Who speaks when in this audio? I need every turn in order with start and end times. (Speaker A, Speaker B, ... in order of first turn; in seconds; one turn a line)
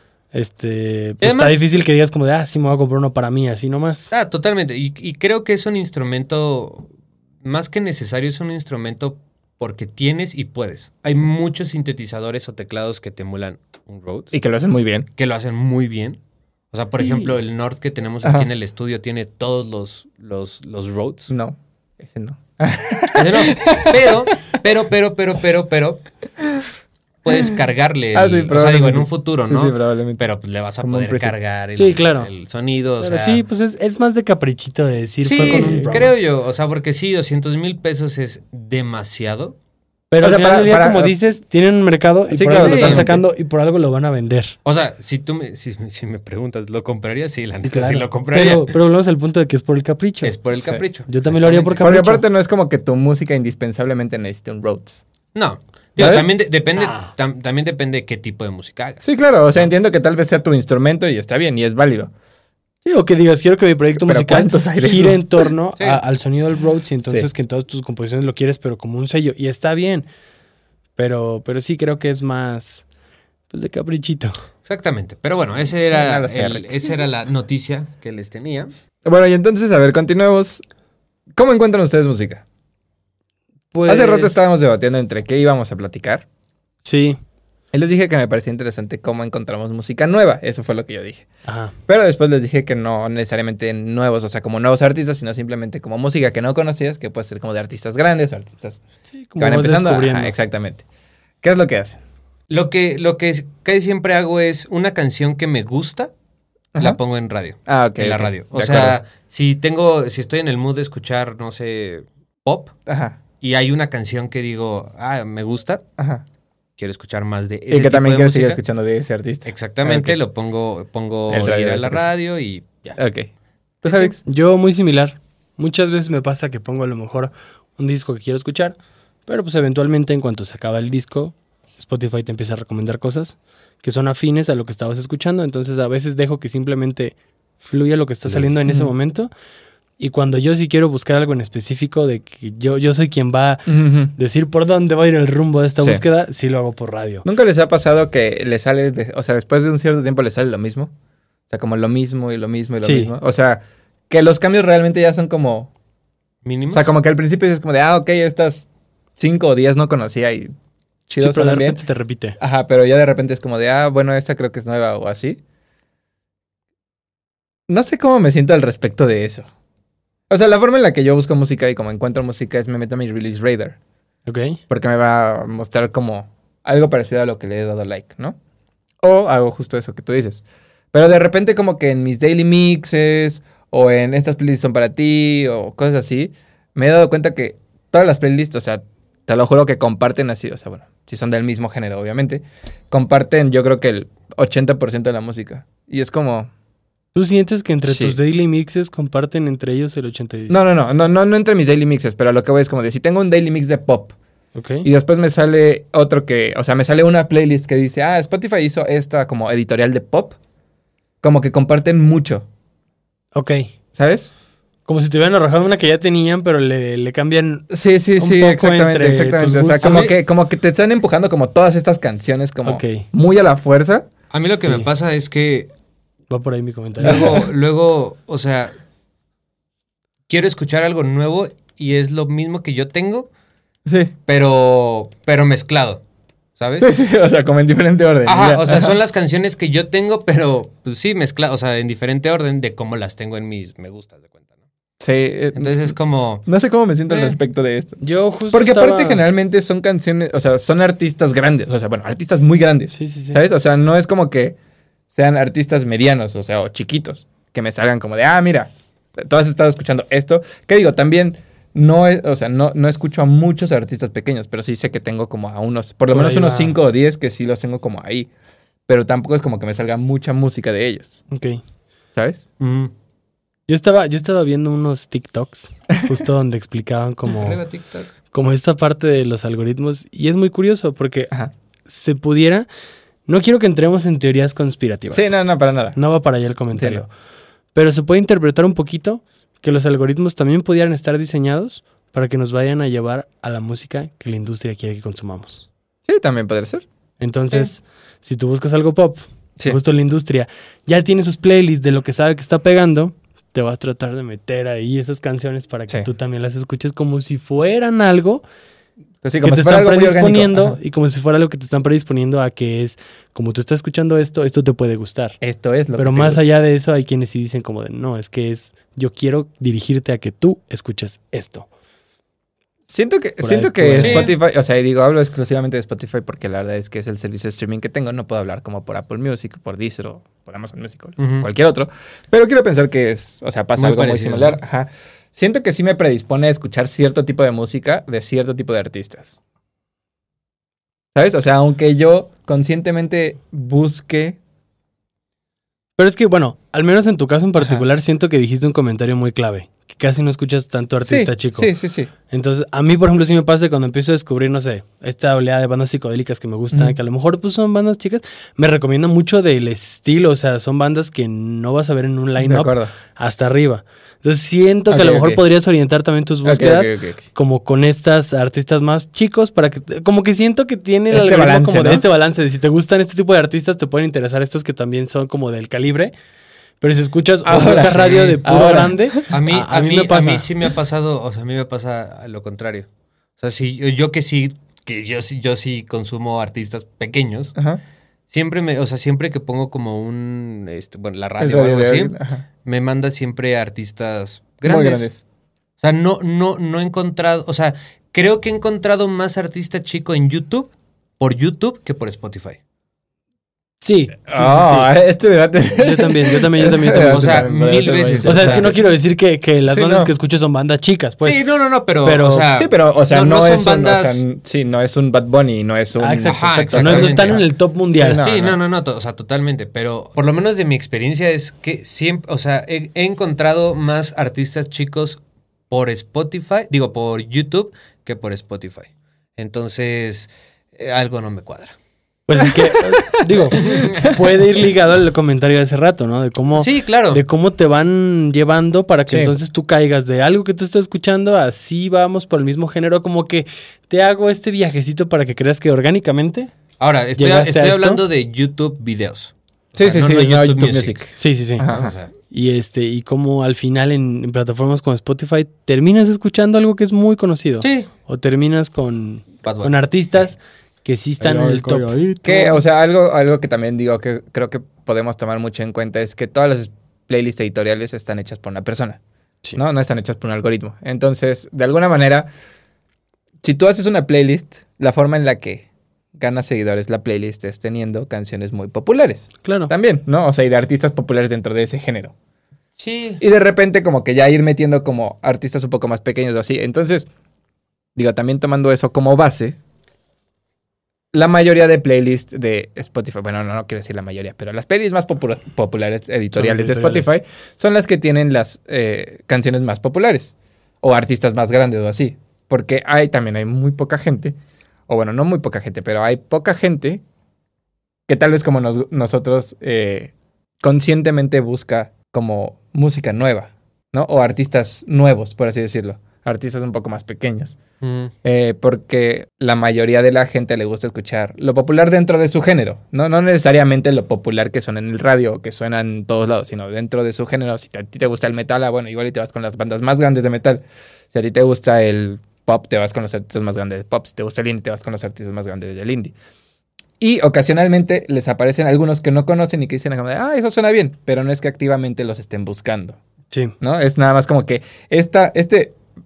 Speaker A: 0.3-4.1
Speaker B: 1.2-1.6
Speaker B: 4.1-6.9
Speaker B: 7.4-14.3
Speaker C: 14.3-15.1
Speaker B: 15.2-16.2
Speaker B: 16.7-21.3
Speaker C: 18.2-18.5
Speaker C: 21.3-24.5
Speaker B: 23.1-26.0
Speaker B: 27.2-33.5
Speaker C: 28.1-30.2
Speaker C: 30.8-31.3
Speaker A: 31.8-32.3
Speaker A: 33.0-36.2
Speaker B: 35.2-39.5
Speaker C: 35.4-36.1
Speaker A: 40.1-44.5
Speaker C: 40.2-41.1
Speaker C: 42.3-43.2
Speaker B: 42.5-43.1
Speaker B: 44.6-48.7
Speaker A: 47.6-50.4
Speaker B: 50.2-51.9
Speaker A: 51.0-52.2
Speaker C: 51.8-55.0
Speaker B: 55.3-59.0
Speaker C: 56.0-56.3
Speaker C: 59.0-62.1
Speaker A: 62.8-70.0
Speaker C: 64.0-65.5
Speaker A: 71.0-72.8
Speaker A: 73.5-74.4
Speaker B: 74.7-78.7
Speaker C: 75.9-76.9
Speaker C: 79.0-80.6
Speaker C: 81.3-82.4
Speaker A: 83.7-84.5
Speaker C: 83.8-86.2
Speaker A: 86.8-87.2
Speaker C: 87.7-91.3
Speaker A: 91.5-91.7
Speaker C: 91.9-98.8
Speaker A: 99.1-100.3
Speaker C: 99.4-100.8
Speaker C: 101.4-102.0
Speaker B: 102.5-106.1
Speaker B: 106.8-112.7
Speaker C: 107.7-109.0
Speaker C: 112.9-113.2
Speaker B: 113.4-115.8
Speaker C: 116.0-116.2
Speaker B: 116.8-118.6
Speaker C: 117.7-120.2
Speaker B: 119.5-123.0
Speaker C: 121.3-122.1
Speaker C: 123.0-123.3
Speaker C: 123.8-124.2
Speaker A: 123.9-128.7
Speaker A: 129.3-139.3
Speaker C: 138.3-138.9
Speaker A: 140.0-147.2
Speaker C: 143.7-144.1
Speaker C: 147.2-150.9
Speaker C: 151.5-155.7
Speaker A: 152.8-153.1
Speaker B: 156.4-156.9
Speaker C: 156.7-158.7
Speaker C: 159.2-160.5
Speaker C: 161.1-161.8
Speaker A: 161.2-162.4
Speaker C: 162.4-165.4
Speaker C: 167.7-169.5
Speaker C: 170.3-173.8
Speaker A: 174.3-174.6
Speaker C: 174.7-178.4
Speaker C: 179.0-196.5
Speaker A: 197.1-200.6
Speaker C: 197.8-198.2
Speaker C: 200.5-204.1
Speaker A: 204.5-204.9
Speaker C: 204.8-210.4
Speaker C: 211.2-212.4
Speaker A: 213.3-213.7
Speaker C: 213.9-214.3
Speaker A: 214.8-220.1
Speaker C: 217.7-224.1
Speaker B: 219.8-220.1
Speaker A: 222.6-223.1
Speaker B: 224.3-225.7
Speaker A: 226.3-227.4
Speaker B: 227.0-228.8
Speaker B: 230.3-233.3
Speaker C: 233.8-234.1
Speaker B: 234.2-236.0
Speaker B: 236.6-236.9
Speaker C: 236.8-239.0
Speaker B: 238.2-244.4
Speaker C: 245.0-248.0
Speaker B: 245.5-246.4
Speaker B: 247.1-247.3
Speaker A: 248.0-249.2
Speaker C: 248.5-254.6
Speaker A: 252.9-253.4
Speaker C: 255.1-268.3
Speaker A: 266.1-266.8
Speaker C: 268.9-271.2
Speaker A: 271.3-271.6
Speaker C: 272.1-272.4
Speaker B: 272.6-272.9
Speaker A: 273.7-277.6
Speaker B: 277.4-278.1
Speaker A: 278.3-281.3
Speaker A: 281.9-282.7
Speaker A: 283.3-285.4
Speaker C: 285.1-285.9
Speaker A: 285.9-287.1
Speaker C: 286.7-287.0
Speaker A: 287.7-295.7
Speaker C: 296.1-296.8
Speaker A: 297.2-308.4
Speaker C: 309.2-310.8
Speaker A: 309.4-315.4
Speaker C: 315.4-316.4
Speaker A: 316.0-321.7
Speaker C: 322.9-339.4
Speaker A: 323.4-324.3
Speaker B: 324.0-324.3
Speaker B: 331.2-331.5
Speaker B: 333.8-334.6
Speaker C: 341.1-344.4
Speaker A: 346.0-351.7
Speaker C: 347.6-347.8
Speaker C: 351.0-352.1
Speaker A: 352.3-376.1
Speaker C: 356.7-357.0
Speaker C: 362.4-362.9
Speaker C: 364.9-365.4
Speaker C: 366.4-367.2
Speaker C: 371.1-372.0
Speaker A: 376.8-380.5
Speaker C: 377.4-379.2
Speaker B: 377.6-378.4
Speaker B: 379.3-387.5
Speaker C: 387.5-387.8
Speaker B: 388.3-395.1
Speaker C: 391.4-392.4
Speaker C: 394.6-395.2
Speaker B: 395.8-402.6
Speaker A: 403.8-404.9
Speaker C: 404.3-408.8
Speaker A: 405.8-407.4
Speaker B: 407.0-408.8
Speaker A: 408.2-411.4
Speaker C: 409.7-410.1
Speaker B: 411.2-414.2
Speaker A: 412.0-412.5
Speaker C: 412.5-418.6
Speaker A: 416.0-418.2
Speaker B: 416.3-417.4
Speaker B: 418.2-431.7
Speaker A: 432.3-446.5
Speaker C: 432.4-434.1
Speaker B: 433.5-434.1
Speaker B: 436.5-437.2
Speaker C: 439.1-439.4
Speaker B: 446.8-451.0
Speaker A: 447.2-448.0
Speaker C: 449.8-451.9
Speaker A: 451.2-451.7
Speaker B: 451.7-452.1
Speaker A: 452.3-462.6
Speaker B: 457.6-457.9
Speaker B: 459.4-459.7
Speaker C: 461.2-469.0
Speaker C: 469.6-472.3
Speaker C: 473.4-482.1
Speaker A: 479.4-479.7
Speaker B: 482.8-483.2
Speaker C: 483.2-487.1
Speaker C: 487.9-489.6
Speaker C: 491.1-504.3
Speaker A: 496.3-497.1
Speaker C: 504.9-507.0
Speaker C: 508.1-517.6
Speaker B: 517.8-518.1
Speaker C: 518.2-536.1
Speaker C: 537.0-543.0
Speaker C: 543.6-545.8